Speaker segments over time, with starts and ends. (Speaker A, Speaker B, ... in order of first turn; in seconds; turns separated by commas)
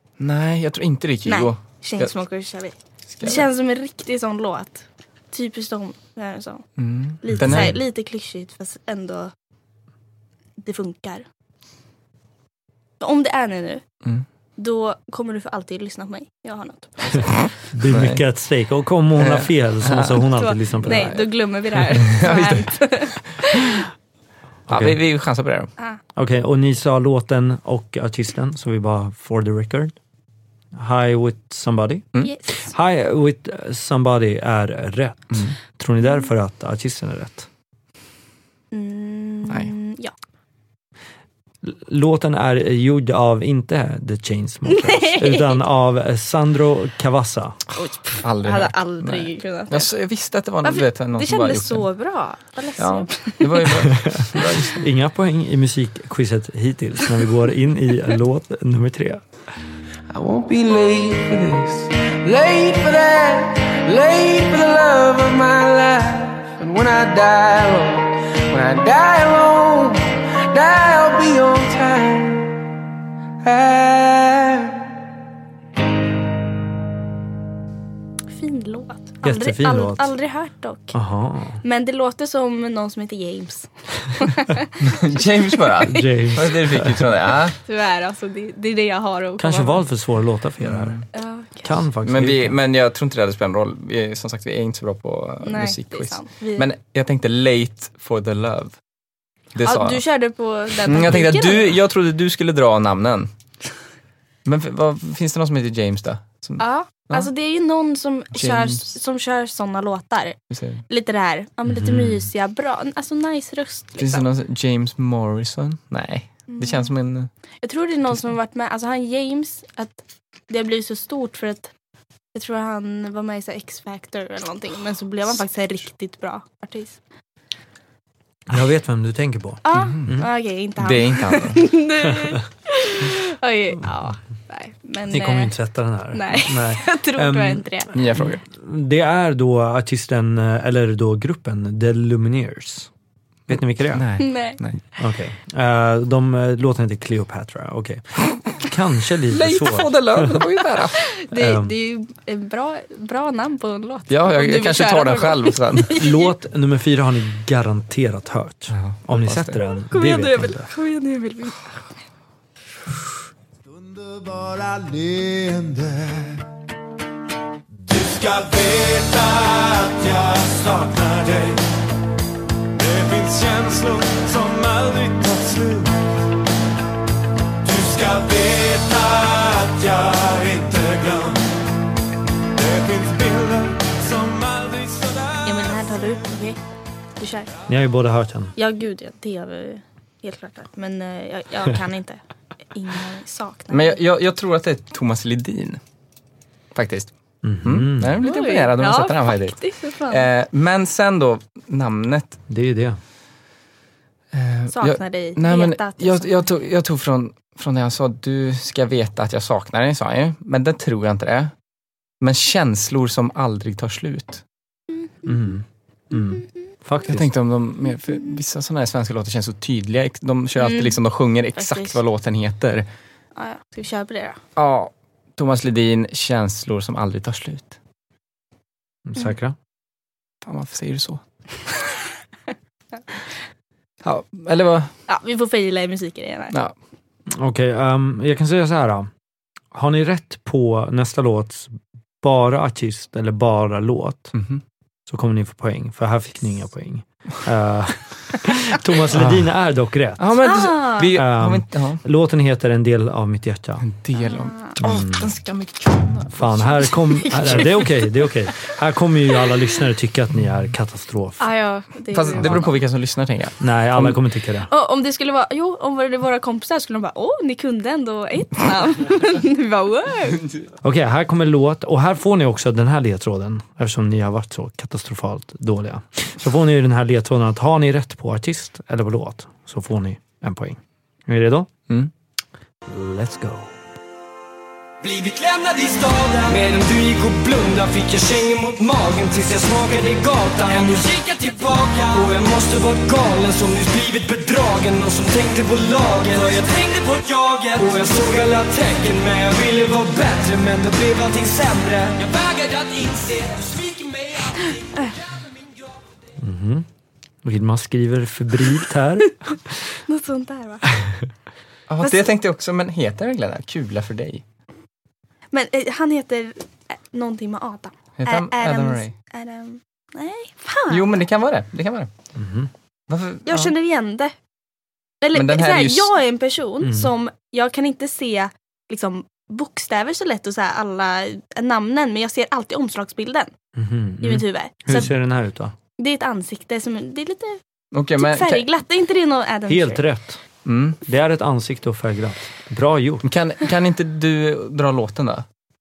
Speaker A: 0.2-2.1, Speaker B: 1.3-6.6, Speaker A: 3.2-3.5, Speaker A: 6.8-7.8, Speaker B: 7.2-9.3, Speaker C: 7.3-7.8, Speaker B: 10.6-11.3, Speaker B: 13.0-13.8, Speaker B: 14.6-17.5, Speaker C: 17.7-21.2, Speaker A: 17.9-18.2, Speaker A: 19.2-20.3, Speaker B: 20.3-23.9, Speaker A: 20.8-21.3, Speaker A: 21.8-23.2, Speaker C: 24.7-25.0, Speaker A: 24.7-25.7, Speaker C: 26.2-30.0, Speaker C: 30.8-37.5, Speaker B: 32.2-32.6, Speaker A: 35.3-35.6, Speaker B: 38.7-40.1, Speaker C: 41.6-47.6, Speaker B: 44.7-45.6, Speaker B: 47.8-49.9, Speaker A: 48.2-51.9, Speaker B: 50.6-53.7, Speaker A: 52.8-54.8, Speaker C: 54.1-59.2, Speaker D: 60.1-72.5, Speaker D: 73.4-74.9, Speaker B: 78.3-81.0, Speaker C: 79.2-80.1, Speaker C: 80.9-81.6, Speaker B: 81.6-85.0, Speaker A: 84.8-87.6, Speaker C: 85.8-87.0, Speaker B: 87.7-89.8, Speaker C: 89.4-91.0, Speaker A: 90.6-91.0, Speaker B: 91.1-91.7, Speaker C: 91.6-92.6, Speaker A: 92.0-98.8, Speaker B: 95.4-96.7, Speaker A: 99.5-100.0, Speaker B: 99.6-101.8, Speaker A: 100.8-103.3, Speaker A: 104.5-107.3, Speaker B: 106.6-110.4, Speaker A: 108.3-108.9, Speaker A: 110.5-110.8, Speaker B: 110.9-114.3, Speaker C: 111.7-112.2, Speaker A: 114.0-117.3, Speaker B: 116.5-116.9, Speaker B: 117.6-121.7, Speaker B: 122.3-127.0, Speaker C: 128.5-130.3, Speaker B: 129.7-135.6, Speaker A: 129.7-130.1, Speaker A: 130.8-131.7, Speaker C: 135.1-142.9, Speaker B: 136.1-137.9, Speaker A: 137.9-138.4, Speaker C: 143.5-144.1, Speaker A: 143.5-144.8, Speaker B: 144.2-144.6, Speaker C: 145.0-150.4, Speaker A: 149.3-151.1, Speaker B: 151.0-156.3, Speaker C: 151.3-151.7, Speaker A: 154.1-156.0, Speaker C: 155.9-160.7, Speaker A: 158.7-159.6, Speaker B: 159.9-161.9, Speaker E: 163.7-166.5, Speaker E: 167.8-171.7, Speaker E: 172.8-176.1, Speaker E: 177.6-181.5, Speaker E: 182.6-185.3, Speaker B: 185.4-186.6, Speaker B: 187.2-187.5, Speaker C: 187.7-188.6, Speaker B: 188.6-192.2, Speaker B: 192.7-194.0, Speaker A: 193.7-195.8, Speaker A: 196.8-199.6, Speaker C: 197.4-198.2, Speaker B: 198.2-200.3, Speaker A: 200.1-202.4, Speaker C: 202.5-203.0, Speaker A: 204.3-211.5, Speaker B: 204.7-206.4, Speaker A: 212.2-214.4, Speaker C: 215.2-217.3, Speaker A: 217.1-222.9, Speaker B: 220.6-221.0, Speaker B: 221.6-222.0, Speaker B: 223.3-224.4, Speaker A: 224.6-227.8, Speaker C: 229.1-229.6, Speaker A: 230.4-231.2, Speaker A: 234.0-234.9, Speaker B: 235.1-236.6, Speaker C: 237.3-239.1, Speaker C: 239.7-244.3, Speaker A: 244.3-244.6, Speaker C: 245.1-250.3, Speaker A: 249.1-249.5, Speaker A: 250.2-252.0, Speaker B: 250.4-251.1, Speaker C: 251.1-253.8, Speaker A: 253.8-257.8, Speaker B: 254.2-254.8, Speaker C: 254.8-255.3, Speaker C: 256.3-261.4, Speaker B: 257.1-258.0, Speaker B: 261.4-262.8, Speaker A: 262.1-264.2, Speaker C: 262.4-262.6, Speaker C: 263.6-264.7, Speaker B: 264.7-270.5, Speaker C: 270.8-281.7, Speaker C: 282.9-283.8, Speaker F: 285.0-305.8, Speaker C: 306.4-306.9, Speaker C: 307.4-309.7, Speaker B: 310.1-311.0, Speaker A: 311.9-314.4, Speaker B: 312.0-312.3, Speaker B: 315.5-321.2, Speaker A: 318.2-319.1, Speaker A: 320.9-322.1, Speaker C: 322.4-322.7, Speaker A: 323.1-323.7, Speaker B: 323.5-324.4, Speaker B: 325.2-333.5, Speaker A: 325.3-326.1, Speaker C: 326.8-327.1, Speaker C: 333.8-335.8, Speaker B: 334.2-335.1, Speaker B: 336.0-337.6, Speaker A: 337.9-338.7, Speaker B: 338.2-340.1, Speaker C: 339.7-340.4, Speaker A: 340.6-341.0, Speaker C: 341.1-343.2, Speaker A: 343.2-345.5